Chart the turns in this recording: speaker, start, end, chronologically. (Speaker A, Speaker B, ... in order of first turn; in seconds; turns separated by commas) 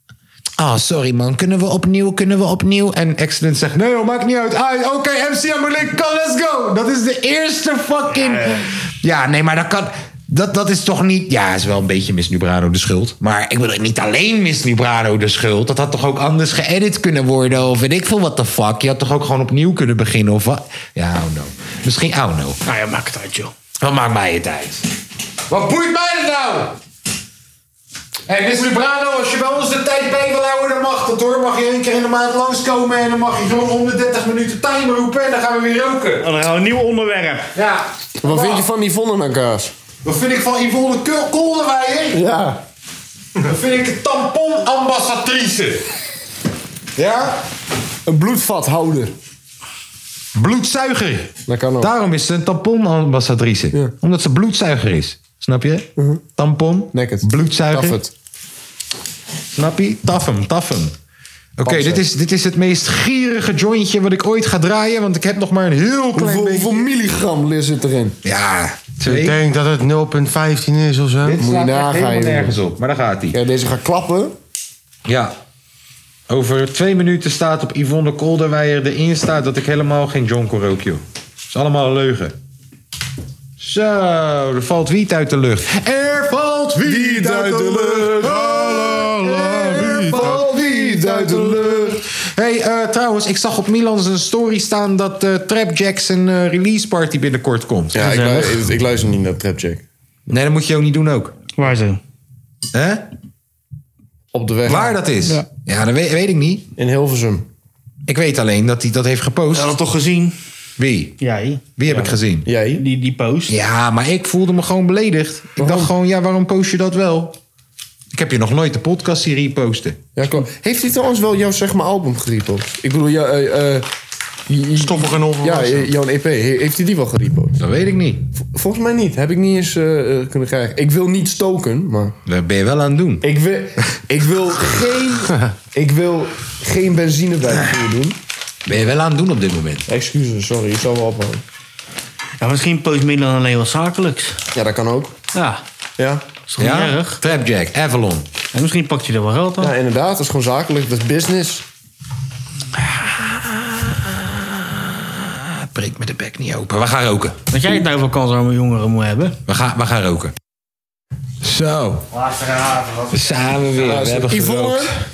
Speaker A: 0.6-22.6, Speaker B: 8.1-8.7, Speaker B: 22.6-23.5, Speaker A: 23.8-24.9, Speaker A: 25.5-26.8, Speaker A: 28.3-36.3, Speaker B: 36.2-37.5, Speaker A: 37.5-38.6, Speaker C: 38.2-39.7, Speaker A: 40.0-42.2, Speaker C: 42.1-42.6, Speaker A: 43.4-45.9, Speaker A: 47.0-47.4, Speaker C: 48.0-49.1, Speaker A: 50.3-58.0, Speaker C: 51.5-51.9, Speaker C: 56.0-56.2, Speaker C: 56.9-58.1, Speaker A: 59.5-60.9, Speaker A: 61.6-66.8, Speaker C: 61.6-62.0, Speaker C: 66.1-68.2, Speaker A: 68.2-69.4, Speaker D: 69.0-71.4, Speaker A: 71.2-73.4, Speaker C: 71.4-72.6, Speaker C: 73.3-74.3, Speaker A: 75.0-75.3, Speaker A: 76.3-82.3, Speaker A: 83.6-98.3, Speaker C: 86.8-92.0, Speaker D: 88.2-90.4, Speaker C: 97.9-99.8, Speaker B: 98.0-98.5, Speaker A: 100.3-101.3, Speaker B: 101.6-102.0, Speaker A: 102.7-103.1, Speaker C: 104.3-105.0, Speaker A: 104.7-106.7, Speaker C: 106.8-107.5, Speaker A: 108.1-109.7, Speaker B: 109.5-110.3, Speaker A: 110.8-111.1, Speaker B: 111.2-112.1, Speaker A: 111.8-112.5, Speaker C: 111.9-112.8, Speaker B: 112.8-113.6, Speaker A: 113.5-117.3, Speaker C: 115.6-115.9, Speaker A: 118.1-120.0, Speaker C: 120.2-123.9, Speaker C: 124.5-127.6, Speaker D: 124.8-125.9, Speaker A: 127.6-128.3, Speaker C: 128.4-132.1, Speaker A: 132.2-133.2, Speaker C: 133.2-138.2, Speaker A: 138.6-139.8, Speaker C: 139.9-141.4, Speaker B: 142.4-144.4, Speaker C: 144.5-145.1, Speaker B: 145.3-145.6, Speaker C: 146.0-146.2, Speaker B: 146.5-147.2, Speaker A: 146.6-148.3, Speaker B: 148.5-149.7, Speaker C: 149.6-151.6, Speaker A: 152.8-157.4, Speaker B: 157.5-159.4, Speaker A: 159.5-160.3, Speaker A: 161.4-162.1, Speaker B: 162.1-163.8, Speaker A: 163.1-164.9, Speaker C: 163.8-164.9